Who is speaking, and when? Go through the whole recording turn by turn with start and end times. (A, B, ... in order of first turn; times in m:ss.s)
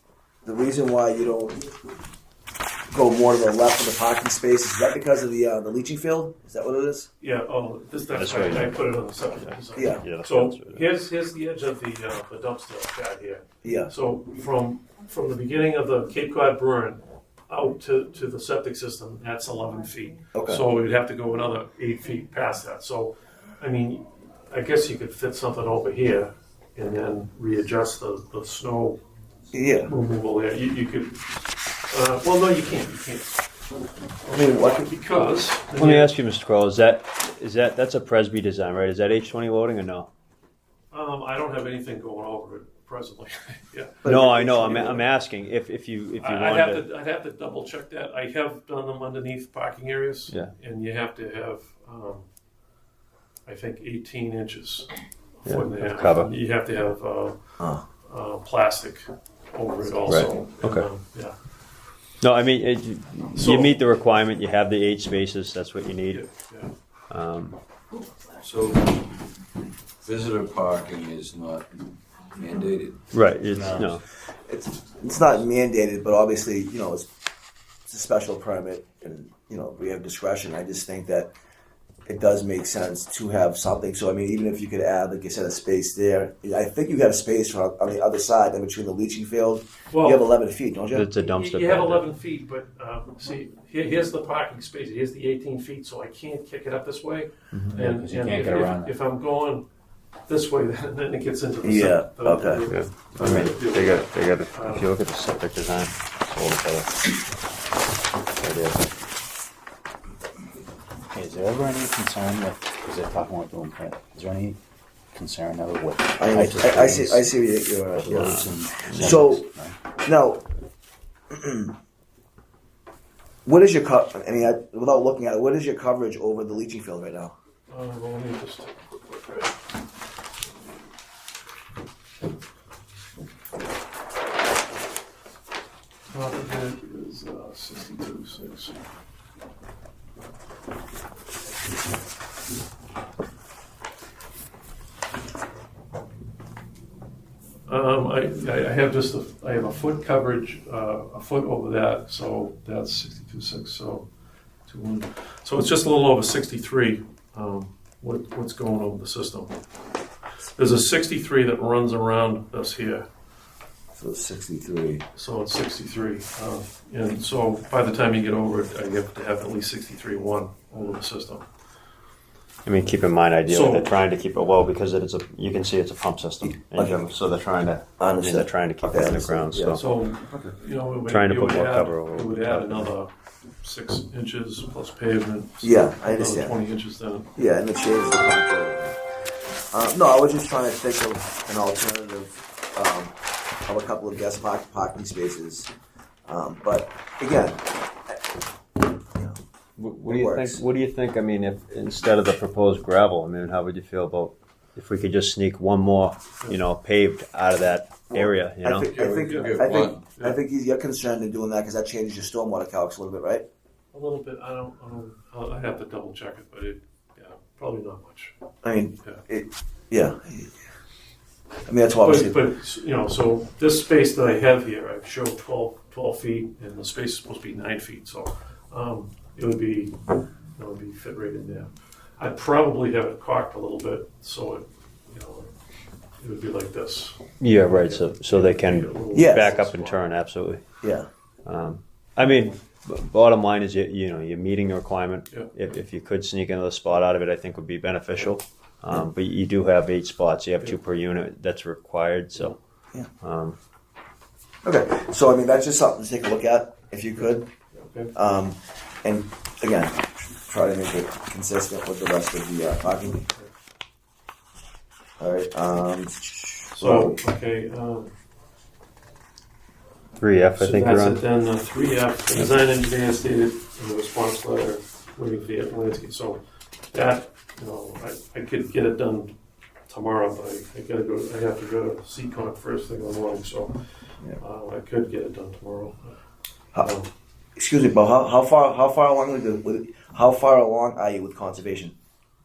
0:00.4-0:01.7 A
0:02.9-0:07.1 A
0:07.2-0:29.0 B
0:08.1-0:08.8 C
0:09.4-0:10.9 C
0:09.8-0:10.0 A
0:13.6-0:13.9 A
0:20.3-0:20.6 A
0:29.5-0:29.9 A
0:29.8-0:33.6 B
0:34.2-0:36.2 B
0:34.3-0:34.9 A
0:35.8-0:40.1 C
0:40.9-0:44.1 B
0:44.0-0:45.0 A
0:44.1-0:46.8 C
0:46.2-0:52.3 B
0:53.5-0:57.4 B
0:55.5-0:56.3 C
0:57.6-0:57.8 A
0:58.0-1:01.4 B
1:00.1-1:00.9 C
1:02.2-1:06.2 C
1:03.4-1:03.8 B
1:06.1-1:06.7 B
1:07.1-1:07.6 C
1:08.4-1:09.3 D
1:10.0-1:13.8 D
1:13.1-1:14.0 C
1:14.3-1:17.1 A
1:17.9-1:21.3 A
1:22.1-1:31.1 A
1:29.9-1:30.3 B
1:30.9-1:32.1 C
1:31.2-1:39.7 B
1:37.7-1:39.0 E
1:40.3-1:44.9 B
1:41.6-1:42.6 A
1:42.7-1:47.0 C
1:48.4-1:48.8 C
1:51.1-1:54.6 E
1:55.1-1:57.3 E
1:56.2-1:59.5 A
1:58.0-1:59.8 E
1:58.1-1:59.2 C
2:00.0-2:00.5 A
2:01.3-2:01.7 A
2:03.4-2:07.4 A
2:07.7-2:09.6 B
2:16.1-2:18.8 B
2:27.7-2:34.1 B
2:34.7-2:39.6 B
2:40.6-2:43.1 B
2:43.9-2:45.0 A
2:45.2-2:51.5 B
2:52.6-2:59.8 C
2:53.5-2:53.9 B
2:56.4-2:57.0 A
2:58.0-2:59.8 A
2:59.8-3:07.4 B
3:01.1-3:02.9 C
3:05.6-3:06.6 A
3:07.4-3:09.0 A
3:09.7-3:13.2 A
3:13.7-3:15.7 A
3:16.3-3:18.2 A
3:19.8-3:29.0 C
3:20.1-3:20.6 A
3:28.1-3:33.5 A
3:28.8-3:30.0 D
3:29.0-3:30.4 B
3:33.9-3:38.4 B
3:38.6-3:40.5 A
3:41.7-3:42.4 A
3:42.0-3:50.0 B
3:50.6-3:55.5 B
3:56.2-4:00.1 B
3:57.4-4:00.6 C
3:59.1-3:59.6 A
4:00.8-4:01.1 A
4:01.5-4:12.6 C
4:13.1-4:13.6 C
4:14.6-4:17.5 A
4:17.7-4:18.1 B
4:18.1-4:23.3 A
4:25.2-4:27.2 A
4:26.7-4:28.1 B
4:30.2-4:31.2 C
4:30.6-4:36.4 B
4:36.9-4:39.4 B
4:39.9-4:46.1 B
4:46.8-4:47.1 B
4:47.6-4:52.0 A